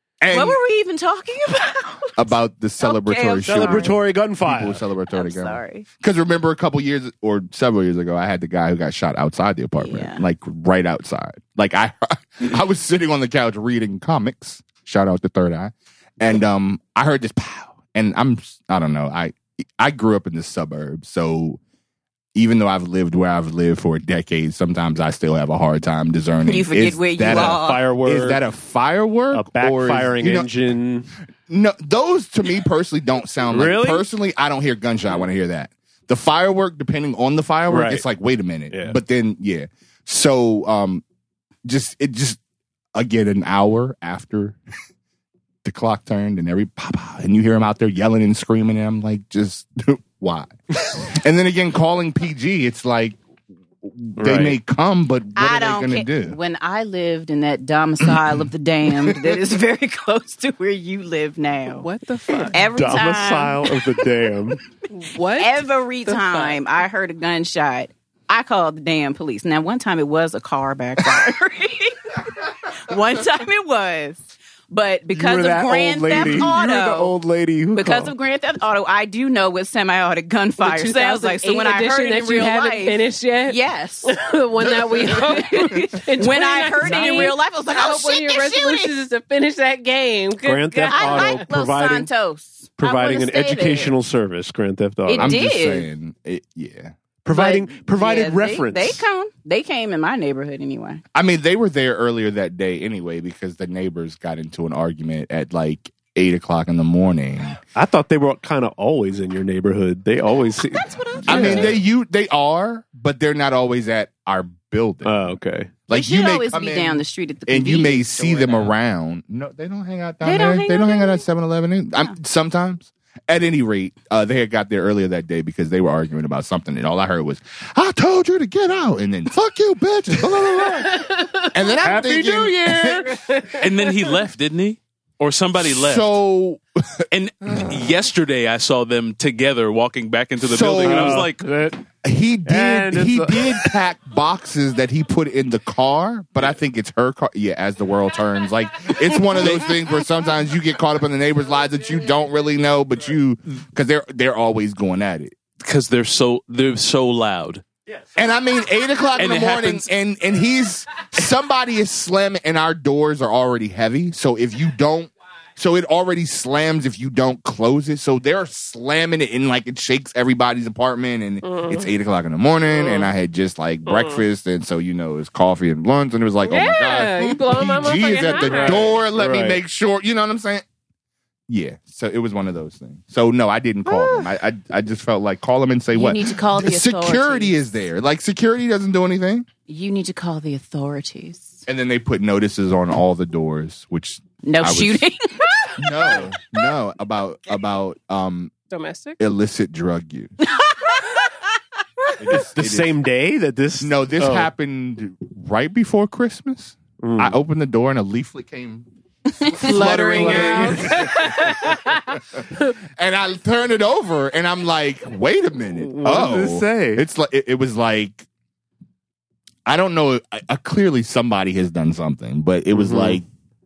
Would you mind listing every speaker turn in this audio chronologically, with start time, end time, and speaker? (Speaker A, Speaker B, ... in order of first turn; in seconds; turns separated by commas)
Speaker A: 0.2-0.6, Speaker B: 0.3-4.0, Speaker A: 2.1-21.6, Speaker C: 3.4-4.8, Speaker B: 5.1-5.8, Speaker B: 9.8-10.2, Speaker A: 22.3-30.5, Speaker B: 26.4-27.9, Speaker C: 27.2-28.4, Speaker C: 29.3-31.1, Speaker A: 31.5-41.0, Speaker C: 33.5-34.0, Speaker C: 37.7-38.0, Speaker C: 38.7-39.0, Speaker A: 41.6-42.4, Speaker A: 42.9-44.6, Speaker A: 45.6-53.2, Speaker A: 53.8-56.4, Speaker C: 54.2-54.6, Speaker B: 55.4-63.9, Speaker A: 58.9-59.4, Speaker D: 61.8-62.6, Speaker C: 62.6-64.6, Speaker D: 64.9-66.6, Speaker B: 65.3-77.2, Speaker C: 75.1-78.1, Speaker A: 76.1-76.5, Speaker B: 77.7-84.1, Speaker D: 80.6-91.4, Speaker B: 85.0-88.9, Speaker C: 90.4-92.1, Speaker B: 90.9-94.0, Speaker C: 92.8-95.4, Speaker B: 95.1-95.9, Speaker A: 95.2-97.0, Speaker C: 97.2-99.0, Speaker B: 97.3-101.0, Speaker A: 101.1-107.6, Speaker C: 107.7-111.8, Speaker B: 110.7-111.7, Speaker A: 111.3-115.4, Speaker C: 115.0-115.8, Speaker B: 115.9-118.7, Speaker A: 115.9-133.2, Speaker B: 120.2-121.2, Speaker D: 130.5-131.8, Speaker C: 131.8-133.0, Speaker D: 132.8-134.1, Speaker E: 133.6-136.2, Speaker A: 135.6-137.8, Speaker E: 137.1-141.4, Speaker A: 140.4-141.3, Speaker C: 140.8-141.8, Speaker A: 142.0-155.3, Speaker C: 142.4-143.7, Speaker E: 149.4-149.7, Speaker E: 155.6-157.6, Speaker A: 158.1-180.6, Speaker E: 159.1-159.9, Speaker D: 171.4-171.9, Speaker D: 172.6-173.1, Speaker D: 173.8-174.2, Speaker D: 176.4-178.9, Speaker C: 178.4-179.6, Speaker A: 181.5-189.5, Speaker B: 185.9-187.5, Speaker B: 189.7-191.6, Speaker A: 191.7-195.0, Speaker B: 194.4-195.9, Speaker A: 195.8-198.5, Speaker D: 198.7-199.2, Speaker A: 199.2-200.3, Speaker B: 200.5-201.3, Speaker A: 202.2-203.0, Speaker C: 202.3-204.5, Speaker A: 203.8-208.9, Speaker C: 207.0-207.4, Speaker B: 209.4-210.6, Speaker A: 209.4-218.2, Speaker D: 209.6-212.7, Speaker C: 209.7-211.0, Speaker C: 215.8-217.0, Speaker A: 219.7-223.2, Speaker C: 222.7-223.2